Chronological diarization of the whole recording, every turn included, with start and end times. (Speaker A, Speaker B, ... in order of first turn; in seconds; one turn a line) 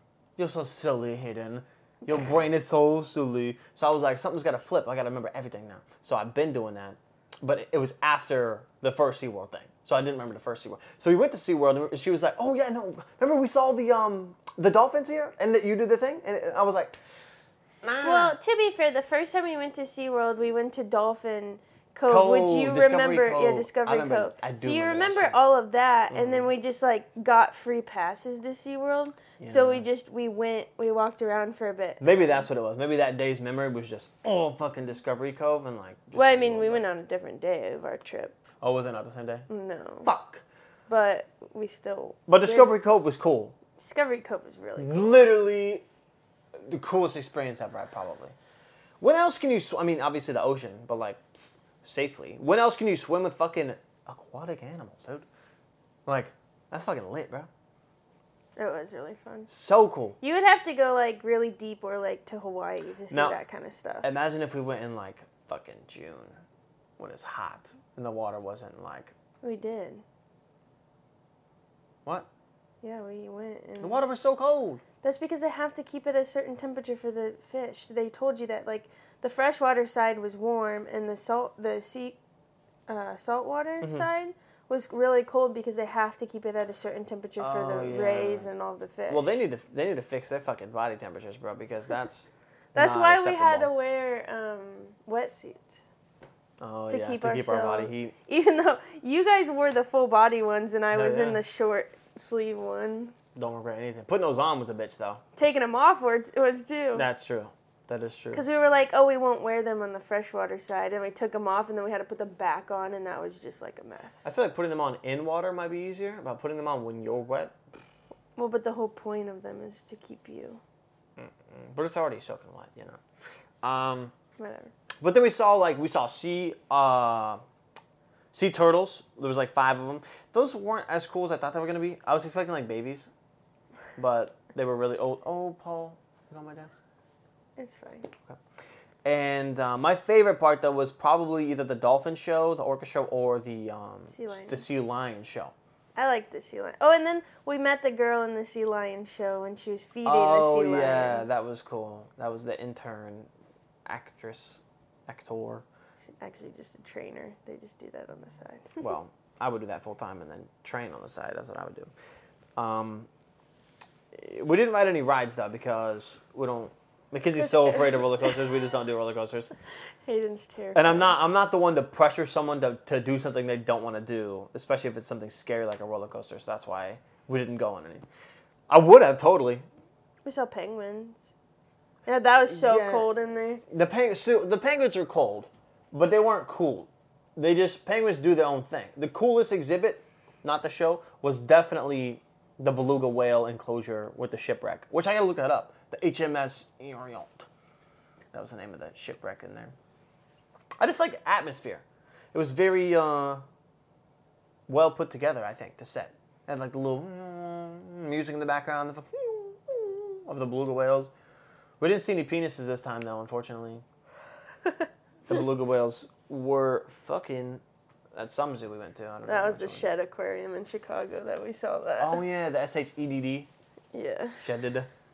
Speaker A: 0.4-17.0
Speaker A: 17.8-18.4
Speaker B: 18.0-32.4
Speaker A: 22.1-25.4
Speaker A: 26.1-26.5
Speaker A: 29.4-29.8
Speaker A: 32.0-36.8
Speaker B: 36.1-38.4
Speaker A: 38.6-39.5
Speaker B: 39.5-40.1
Speaker A: 40.0-40.4
Speaker B: 40.9-42.7
Speaker A: 42.3-43.5
Speaker B: 43.8-45.2
Speaker A: 44.8-45.8
Speaker A: 46.6-48.3
Speaker A: 49.0-51.2
Speaker A: 51.8-55.2
Speaker A: 56.0-57.5
Speaker B: 58.6-59.5
Speaker A: 59.5-60.2
Speaker B: 60.2-64.1
Speaker A: 63.1-63.4
Speaker A: 64.0-66.4
Speaker A: 67.0-69.1
Speaker B: 69.4-70.0
Speaker B: 72.8-74.0
Speaker A: 73.8-74.8
Speaker B: 75.0-82.2
Speaker B: 82.9-89.4
Speaker A: 87.4-88.5
Speaker A: 89.1-93.7
Speaker B: 92.7-95.8
Speaker A: 96.6-98.1
Speaker B: 96.9-103.1
Speaker A: 100.9-101.4
Speaker A: 103.3-105.2
Speaker B: 105.3-107.0
Speaker A: 106.9-108.4
Speaker B: 108.3-114.3
Speaker A: 114.2-117.5
Speaker B: 118.3-120.6
Speaker A: 121.2-123.0
Speaker A: 123.6-124.1
Speaker B: 124.4-124.7
Speaker A: 125.0-127.4
Speaker A: 128.3-133.1
Speaker A: 133.9-136.8
Speaker B: 137.6-138.1
Speaker A: 139.0-145.5
Speaker B: 144.1-144.6
Speaker B: 145.9-151.4
Speaker A: 150.0-153.3
Speaker A: 153.8-155.6
Speaker B: 156.0-158.9
Speaker A: 158.8-161.9
Speaker A: 162.6-163.1
Speaker A: 164.1-169.5
Speaker B: 167.4-168.5
Speaker B: 170.0-171.2
Speaker A: 170.7-178.0
Speaker A: 178.7-179.6
Speaker B: 180.2-181.2
Speaker B: 182.1-183.6
Speaker A: 182.5-183.1
Speaker A: 183.7-197.5
Speaker A: 198.3-199.7
Speaker A: 200.8-201.8
Speaker A: 202.3-203.4
Speaker A: 204.7-211.1
Speaker A: 211.8-213.8
Speaker A: 215.3-217.6
Speaker A: 218.1-219.9
Speaker B: 219.2-222.2
Speaker A: 222.0-223.5
Speaker B: 223.9-224.4
Speaker A: 224.4-224.9